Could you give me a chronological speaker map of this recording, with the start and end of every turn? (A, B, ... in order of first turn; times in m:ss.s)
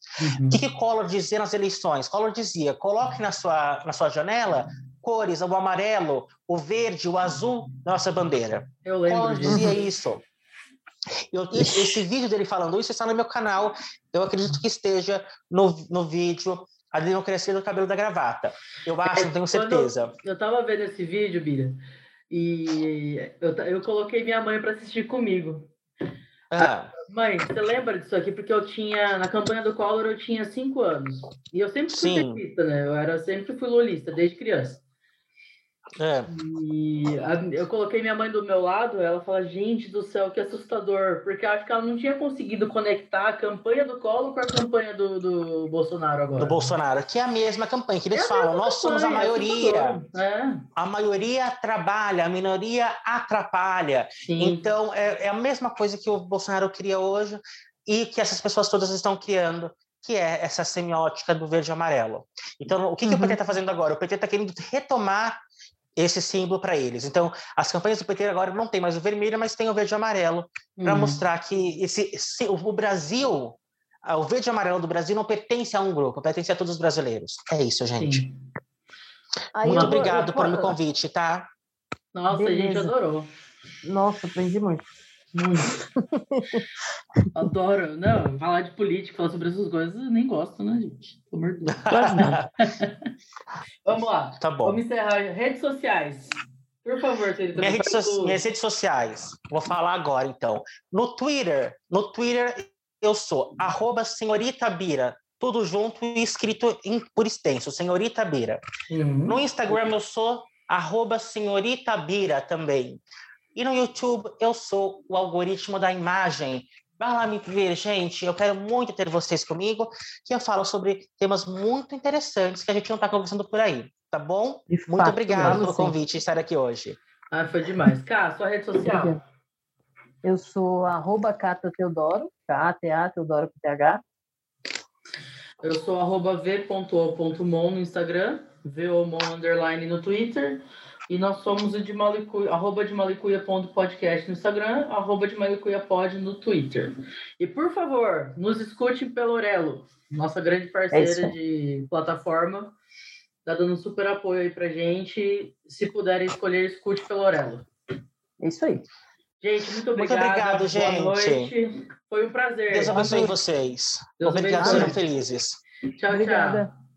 0:00.2-0:00.6 A
0:00.5-0:10.2 B
0:08.8-0:09.9 A
0:09.5-0:09.8 C
0:11.3-0:20.1 B
0:19.1-0:21.8 A
0:22.3-0:25.7 A
0:26.5-0:26.9 B
0:26.6-0:34.8 A
0:31.9-0:32.4 B
0:36.0-0:36.3 B
0:36.3-0:46.8 A
0:46.4-0:50.0 B
0:48.1-0:50.6 A
0:50.8-1:05.4 B
0:54.2-0:54.6 A
1:03.0-1:03.4 C
1:06.0-1:18.2 B
1:10.8-1:11.2 A
1:18.0-1:18.3 A
1:19.6-1:20.8 C
1:19.6-1:21.5 B
1:22.1-1:23.3 A
1:22.3-1:22.9 C
1:23.8-1:24.9 C
1:25.3-1:25.8 A
1:26.0-1:26.6 C
1:27.4-1:33.1 A
1:31.7-1:32.5 B
1:31.9-1:32.4 C
1:33.8-1:38.4 A
1:34.4-1:34.8 B
1:37.6-1:48.6 B
1:48.9-1:49.4 A
1:49.3-1:53.0 B
1:53.6-2:07.0 B
2:04.7-2:06.0 C
2:07.3-2:09.2 A
2:08.8-2:09.2 C
2:10.2-2:14.0 C
2:15.6-2:32.8 A
2:30.9-2:31.3 C
2:33.5-2:37.7 A
2:38.4-2:38.9 C
2:39.4-2:43.2 A
2:40.0-2:41.5 B
2:42.7-2:45.6 B
2:42.9-2:43.4 C
2:44.2-2:45.0 A
2:44.6-2:45.0 C
2:46.0-2:46.7 A
2:46.1-2:46.7 C